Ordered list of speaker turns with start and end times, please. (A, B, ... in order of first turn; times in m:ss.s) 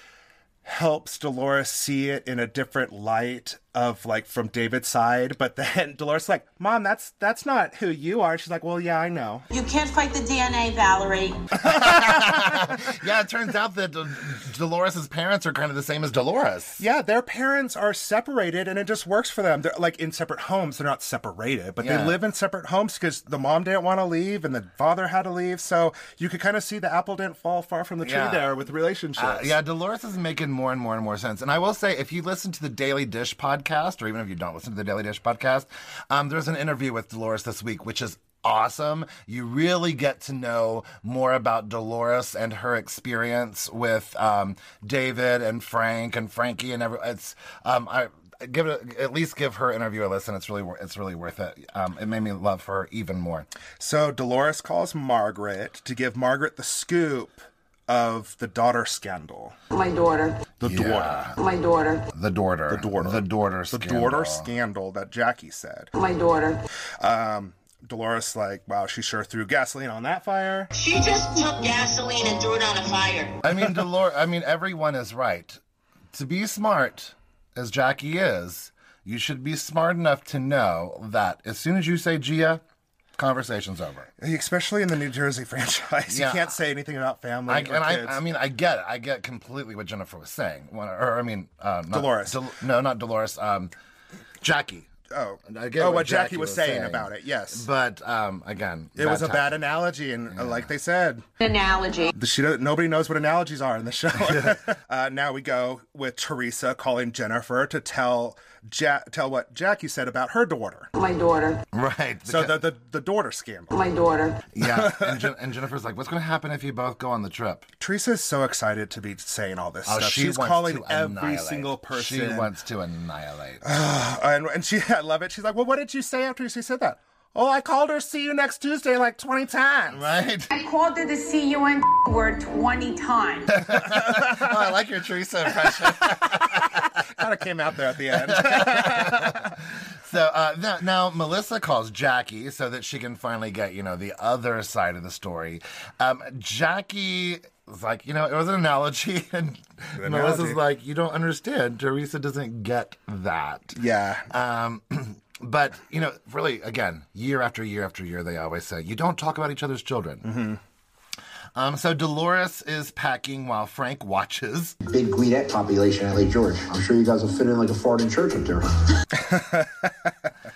0:00.6-0:09.4 A
0:09.5-0:11.4 B
0:11.6-0:12.8 A
0:11.6-0:16.8 C
0:16.8-0:29.6 A
0:21.8-0:22.2 C
0:28.0-0:28.6 C
0:29.2-0:53.5 C
0:53.8-0:59.6 A
0:59.7-1:00.4 B
1:00.6-1:01.3 A
1:00.6-1:01.4 C
1:01.4-1:02.0 B
1:02.1-1:04.5 C
1:02.7-1:05.9 A
1:06.0-1:06.6 B
1:07.0-1:10.7 A
1:10.9-1:13.3 D
1:13.4-1:15.6 C
1:16.1-1:22.6 C
1:23.2-1:24.1 C
1:24.2-1:28.2 A
1:26.1-1:26.5 C
1:27.5-1:33.7 C
1:31.9-1:32.4 A
1:34.4-1:34.9 C
1:35.1-1:37.6 A
1:35.4-1:39.6 C
1:39.0-1:41.2 A
1:40.3-1:40.7 C
1:41.4-1:42.1 D
1:42.1-1:50.9 A
1:44.2-1:44.6 C
1:51.0-1:51.6 B
1:51.7-1:52.6 C
1:52.2-1:53.8 A
1:54.5-1:57.7 C
1:54.6-1:55.3 A
1:57.8-2:02.5 A
1:59.8-2:03.7 C
2:03.6-2:10.1 A
2:09.9-2:10.5 C
2:10.5-2:13.5 B
2:13.5-2:16.9 C
2:13.7-2:14.5 A
2:16.0-2:19.5 A
2:18.1-2:33.8 C
2:30.0-2:30.6 A
2:33.7-2:34.3 A
2:34.3-2:40.2 C
2:40.2-2:40.6 A
2:41.6-2:44.8 C
2:44.8-2:48.7 E
2:49.2-2:50.1 A